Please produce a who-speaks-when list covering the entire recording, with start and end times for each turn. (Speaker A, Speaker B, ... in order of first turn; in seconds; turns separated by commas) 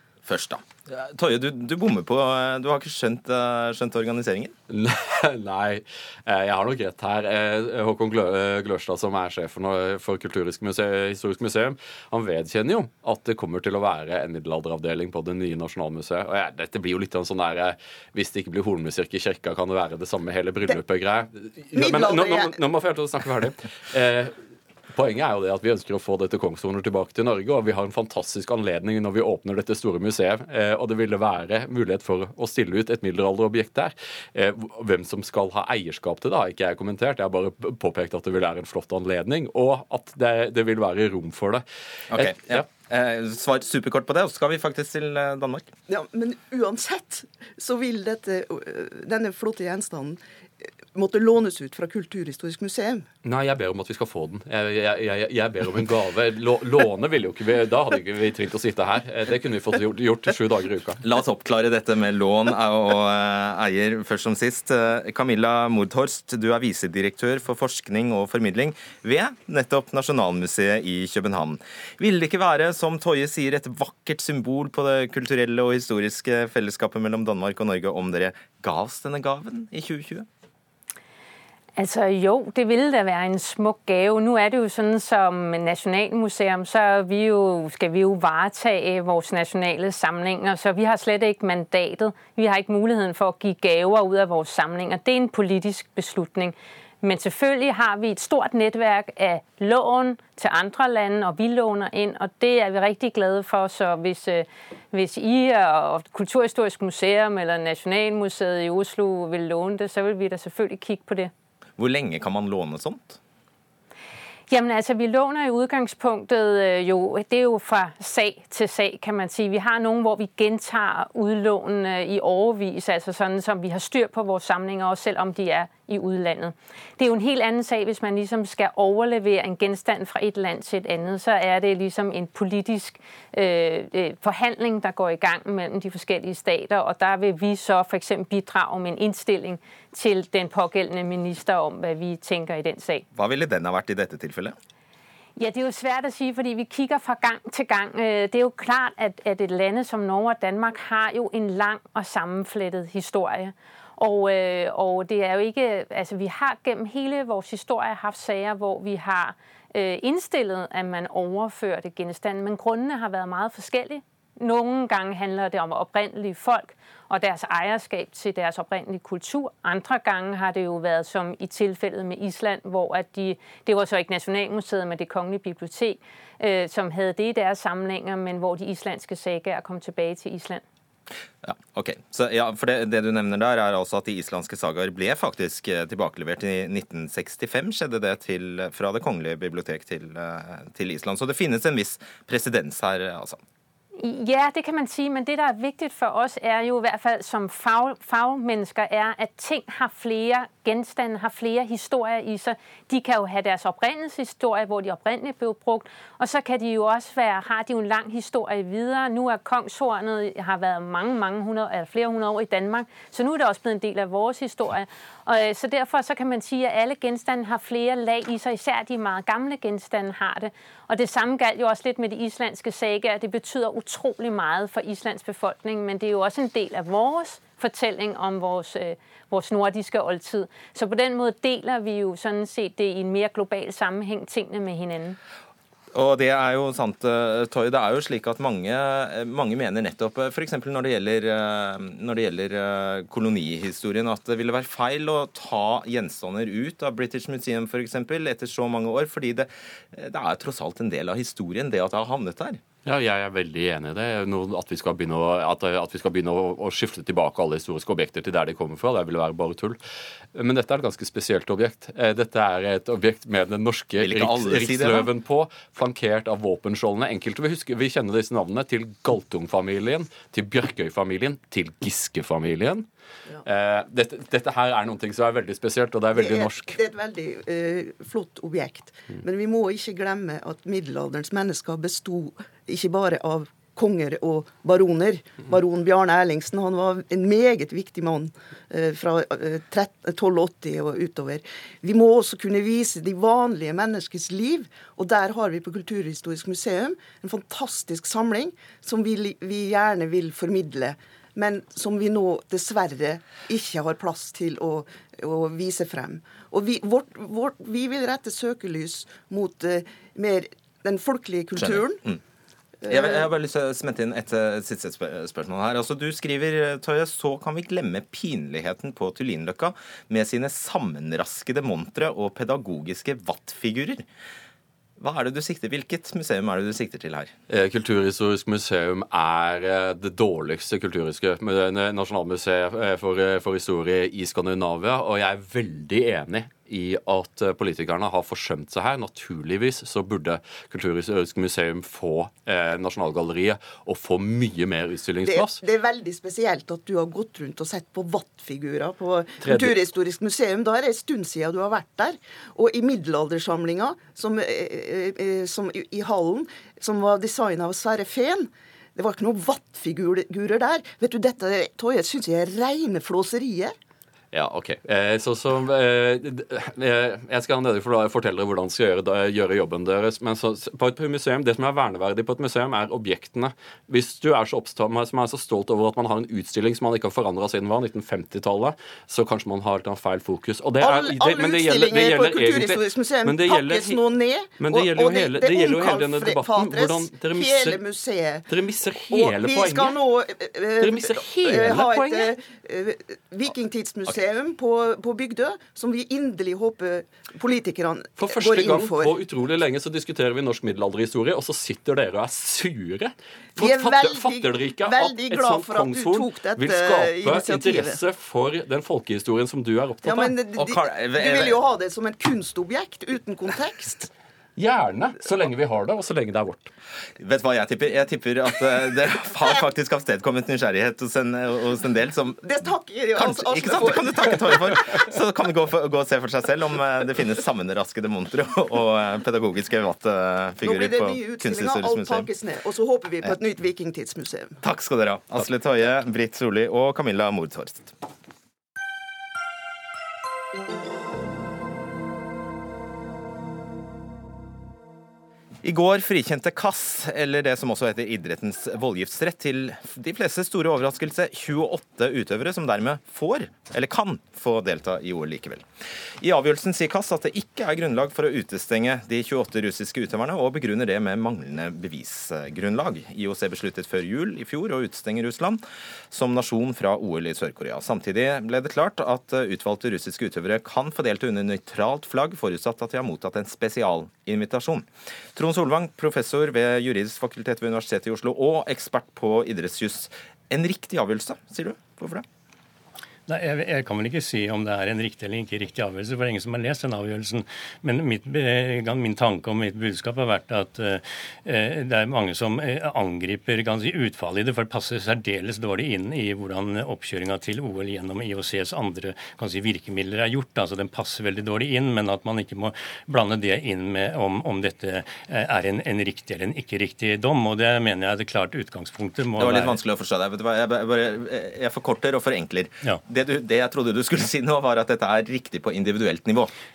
Speaker A: 0.2-4.5, Speaker B: 4.7-24.3, Speaker C: 21.7-22.6, Speaker B: 24.9-42.6, Speaker A: 42.1-45.7, Speaker C: 45.9-50.2, Speaker C: 50.9-53.0, Speaker B: 53.2-61.0, Speaker A: 61.0-80.3, Speaker D: 81.8-111.3, Speaker A: 111.8-113.2, Speaker D: 114.5-143.0, Speaker A: 143.1-144.5, Speaker D: 145.4-180.6, Speaker A: 181.4-193.4, Speaker D: 194.0-235.2, Speaker A: 235.9-252.6, Speaker B: 252.8-259.8, Speaker B: 260.3-272.9, Speaker A: 264.0-265.1, Speaker B: 273.4-276.8, Speaker C: 276.1-312.0, Speaker A: 311.6-312.2, Speaker C: 312.8-313.2, Speaker A: 312.9-324.0, Speaker A: 325.0-327.3, Speaker B: 327.5-345.6, Speaker C: 345.2-363.7, Speaker B: 349.4-349.8, Speaker B: 364.3-387.8, Speaker C: 380.8-388.5, Speaker B: 388.5-390.0, Speaker C: 389.0-399.2, Speaker B: 390.8-392.3, Speaker B: 398.2-410.3, Speaker C: 403.6-408.0, Speaker C: 410.0-414.1, Speaker A: 410.5-411.6, Speaker B: 414.6-416.7, Speaker A: 417.2-422.5, Speaker C: 422.4-424.7, Speaker A: 423.1-432.3, Speaker C: 430.6-434.6, Speaker A: 434.6-437.9, Speaker A: 445.6-455.6, Speaker A: 456.2-482.2, Speaker E: 483.3-509.8, Speaker A: 509.4-516.5